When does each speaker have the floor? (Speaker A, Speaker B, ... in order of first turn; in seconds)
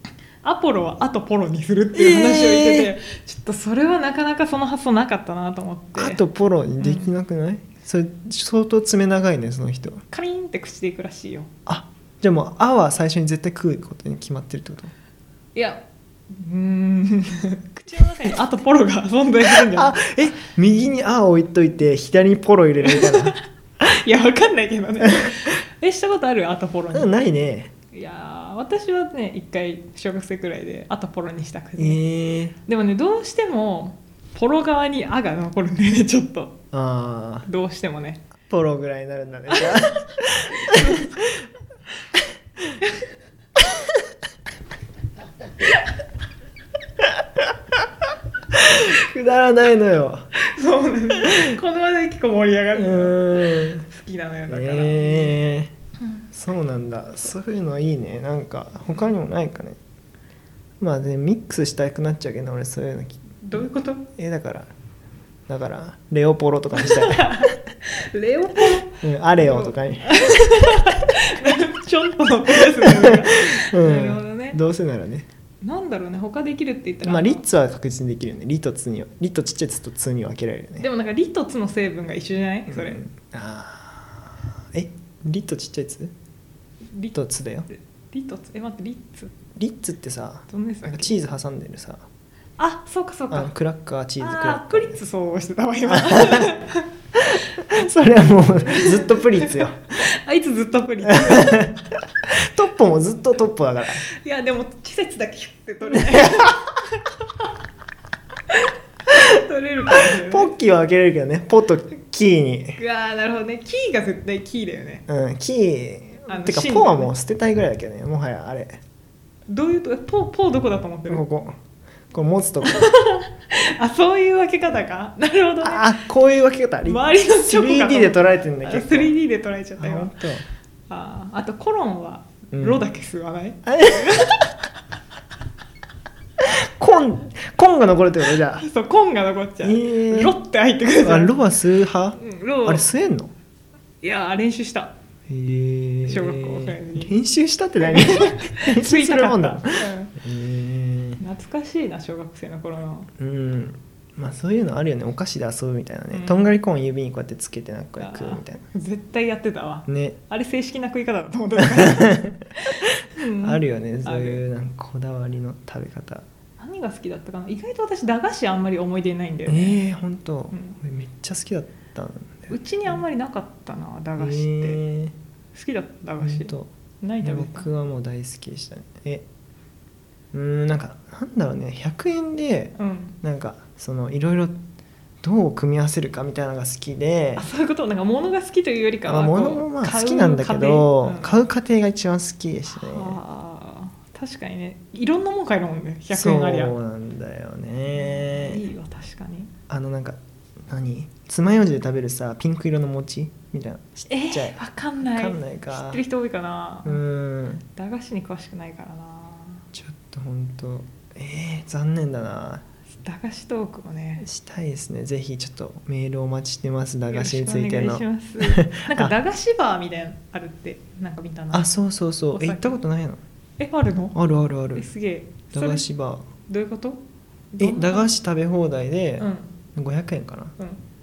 Speaker A: 0.4-6.2, 6.8-7.1, 10.1-11.5, 15.6-20.3, 22.8-27.1, 27.9-32.0, 32.6-36.6, 37.5-38.3, 39.5-39.9, 40.6-41.3, 50.4-55.4, 63.4-64.1, 66.7-74.6, 75.6-77.4, 80.8-83.0, 87.7-89.3, 90.5-91.2, 92.6-93.5, 94.2-96.9, 98.7-101.8, 104.1-107.5, 108.5-110.5, 112.8-115.1, 116.3-117.1, 119.5-121.2, 122.6-126.0, 126.8-130.1, 130.9-134.6, 138.6-141.4, 142.2-142.9, 144.0-144.9, 146.1-147.2, 147.8-150.2, 151.2-153.1, 156.1-156.5, 158.0-164.4, 166.6-169.8, 170.5-170.8, 172.5-174.8, 175.5-177.7, 182.8-183.2, 187.4-191.4, 192.7-196.8, 197.9-199.5, 204.1-207.0, 207.7-209.7, 212.9-214.3, 217.1-221.7, 222.3-222.8, 223.6-224.2, 224.8-225.9, 226.5-227.0, 227.5-228.1, 229.2-229.6
Speaker B: 1.9-2.9, 6.0-10.0, 11.7-14.9, 19.4-23.4, 26.9-27.7, 31.8-32.6, 36.7-37.5, 38.5-41.4, 48.5-50.3, 51.3-51.6, 52.8-53.9, 54.5-55.7, 56.3-59.8, 60.8-64.7, 65.5-67.5, 69.0-70.2, 72.8-75.3, 77.0-80.9, 82.7-86.1, 87.1-87.7, 89.6-92.0, 93.3-95.0, 95.9-96.5, 97.6-100.0, 101.1-101.7, 102.5-104.0, 106.1-106.5, 110.1-112.8, 115.1-118.8, 121.1-121.6, 122.1-122.9, 125.6-129.1, 129.8-130.5, 132.5-132.9, 133.7-134.4, 136.4-138.7, 139.6-143.3, 145.3-151.2, 153.2-158.6, 159.9-160.2, 161.6-166.2, 169.5-173.0, 174.2-175.2, 176.2-176.7, 177.2-179.2, 180.3-184.6, 185.2-187.5, 189.1-193.2, 196.1-198.6, 199.7-206.0, 206.8-207.7, 209.7-212.7, 214.2-219.1, 221.5-223.2, 224.2-224.9, 225.5-226.3, 227.6-230.6